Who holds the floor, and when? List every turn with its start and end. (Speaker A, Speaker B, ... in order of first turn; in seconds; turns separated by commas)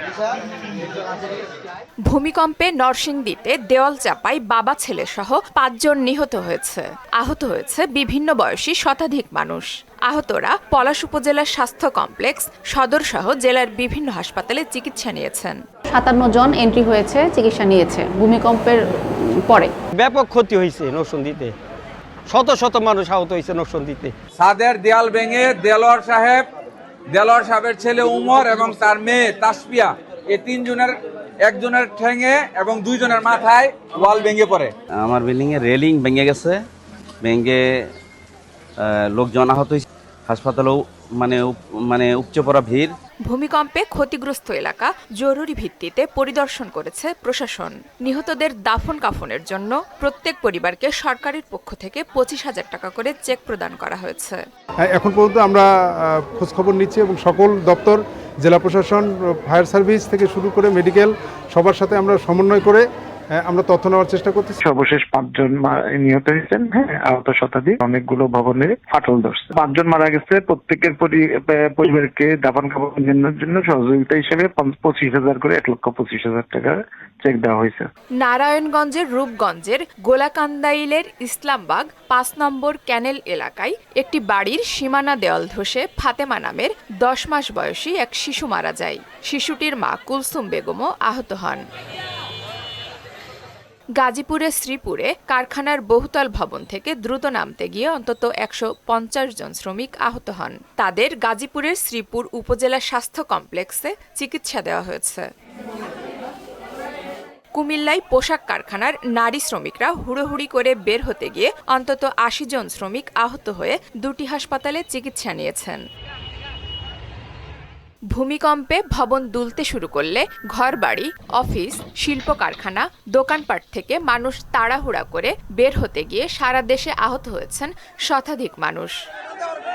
Speaker A: 2.1-15.6, Speaker B: 15.9-19.7, Speaker C: 19.9-21.6, Speaker C: 22.3-24.1, Speaker D: 24.4-26.5, Speaker D: 27.1-34.7, Speaker E: 35.0-36.6, Speaker E: 37.2-37.9, Speaker E: 38.8-42.9, Speaker A: 43.3-54.4, Speaker F: 54.9-62.8, Speaker F: 63.4-64.6, Speaker G: 64.6-77.9, Speaker A: 78.2-91.6, Speaker A: 94.0-105.3, Speaker A: 107.5-115.8, Speaker A: 118.1-129.0